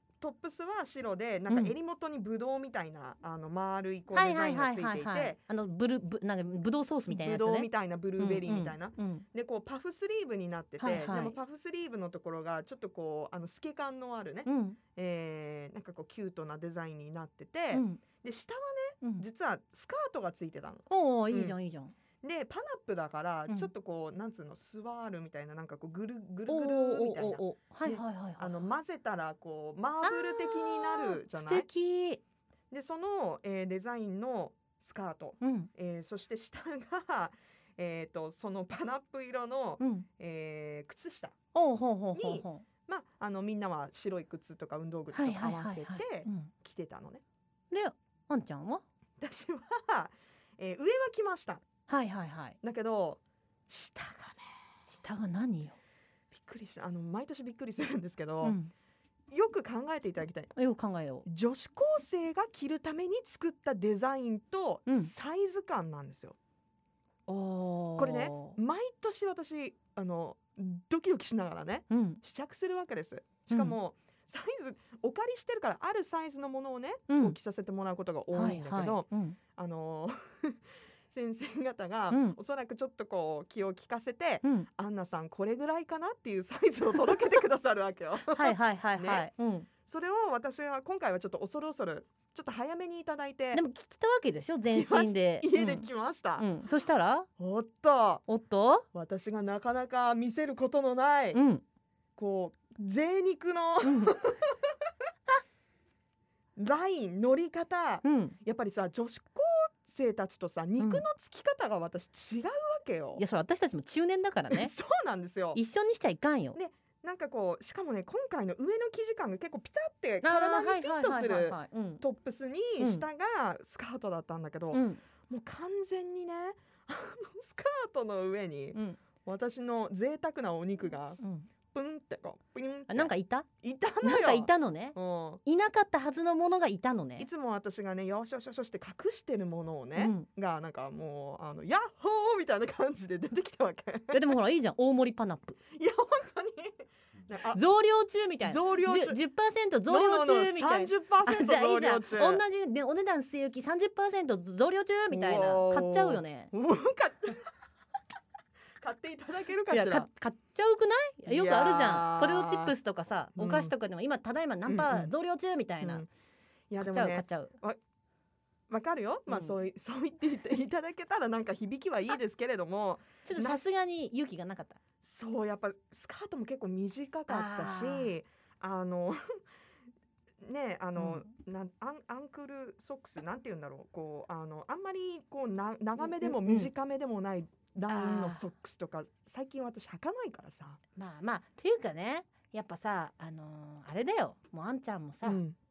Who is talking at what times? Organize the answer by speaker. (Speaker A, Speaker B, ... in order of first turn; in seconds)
Speaker A: 0.2-5.4, 7.1-21.6, 22.2-31.7, 32.7-41.3, 42.1-47.2, 49.2-51.6, 52.6-54.5, 56.3-58.6, 59.3-60.5, 61.2-66.4, 68.0-89.3, 89.9-93.6, 94.7-96.5, 97.4-98.2, 98.9-101.4, 102.2-104.5, 106.5-113.2, 114.5-115.6, 116.5-131.2, 131.7-133.1, 133.6-135.4, 137.2-144.2, 145.7-147.6, 148.4-149.2, 149.9-152.4, 155.1-157.4, 158.8-160.1, 161.2-162.7, 163.3-163.7, 164.7-165.1, 165.8-166.1, 166.7-167.8, 168.7-173.6, 175.0-179.2, 180.4-190.8, 195.2-195.6
Speaker B: 1.5-1.7, 4.1-9.2, 10.8-11.4, 14.4-14.8, 17.7-18.0, 20.9-21.9, 26.5-28.7, 30.0-32.2, 35.4-35.7, 39.8-40.1, 41.5-42.6, 45.1-46.5, 47.7-48.8, 51.9-52.6, 54.9-55.8, 58.4-58.7, 60.5-61.2, 64.9-65.1, 67.3-68.6, 71.9-72.2, 73.5-73.8, 77.1-77.3, 78.3-79.4, 82.1-82.4, 88.3-89.7, 93.5-97.3, 98.3-98.9, 101.3-101.6, 103.8-104.3, 108.0-108.3, 110.8-111.0, 113.2-114.7, 115.5-116.6, 120.2-122.0, 122.8-123.0, 124.7-125.0, 128.7-129.0, 131.2-131.5, 132.9-133.5, 134.0-137.3, 139.9-140.2, 144.1-145.6, 147.5-156.5, 159.7-166.0, 166.8-167.6, 169.3-169.5, 173.2-174.8, 177.3-178.1, 181.0-181.3, 186.0-186.7, 187.9-188.4, 190.9-195.4